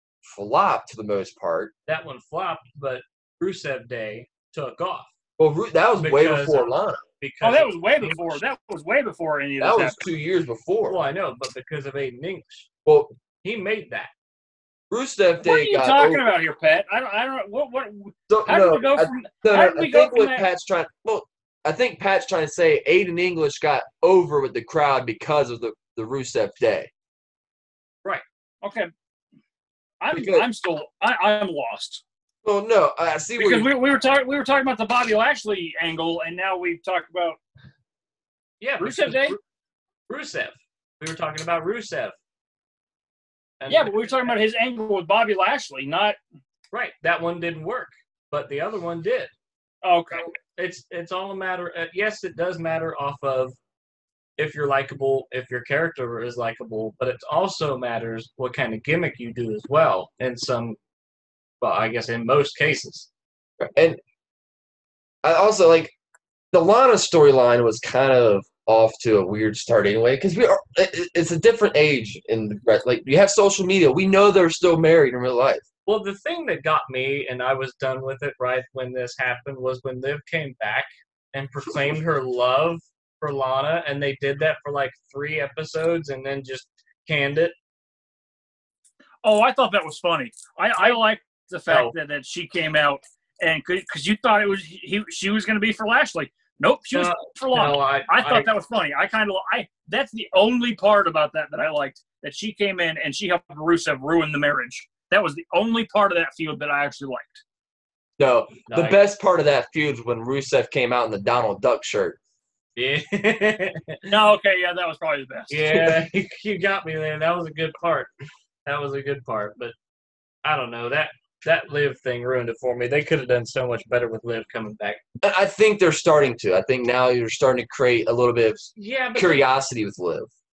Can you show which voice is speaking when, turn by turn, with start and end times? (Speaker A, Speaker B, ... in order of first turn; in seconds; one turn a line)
Speaker A: 0.2-1.7
Speaker B: 1.9-5.1
Speaker A: 5.4-7.0
Speaker B: 6.0-8.4
Speaker C: 7.4-10.0
Speaker A: 9.6-11.0
Speaker B: 10.9-12.7
Speaker A: 12.8-13.1
Speaker B: 13.4-14.1
Speaker A: 14.9-16.2
Speaker C: 15.4-20.5
Speaker A: 18.3-26.9
Speaker C: 28.6-28.9
Speaker C: 30.0-32.0
Speaker A: 30.1-30.4
Speaker A: 32.4-33.7
Speaker C: 33.4-37.4
Speaker B: 38.6-39.4
Speaker C: 38.8-39.4
Speaker B: 40.1-42.1
Speaker B: 43.6-44.4
Speaker C: 43.7-46.2
Speaker B: 46.7-49.3
Speaker C: 49.8-50.3
Speaker B: 50.1-53.5
Speaker B: 54.4-60.8
Speaker B: 61.6-63.1
Speaker A: 63.6-64.0
Speaker A: 65.2-65.9
Speaker A: 66.5-75.6
Speaker B: 75.8-87.5
Speaker C: 89.2-107.4
Speaker B: 91.7-91.9
Speaker B: 96.9-98.5
Speaker A: 108.2-112.2
Speaker B: 108.7-109.0
Speaker B: 112.8-114.1
Speaker C: 114.1-116.0
Speaker B: 115.5-118.1
Speaker B: 118.7-119.7
Speaker B: 120.4-125.0
Speaker A: 125.2-130.3
Speaker B: 128.8-129.4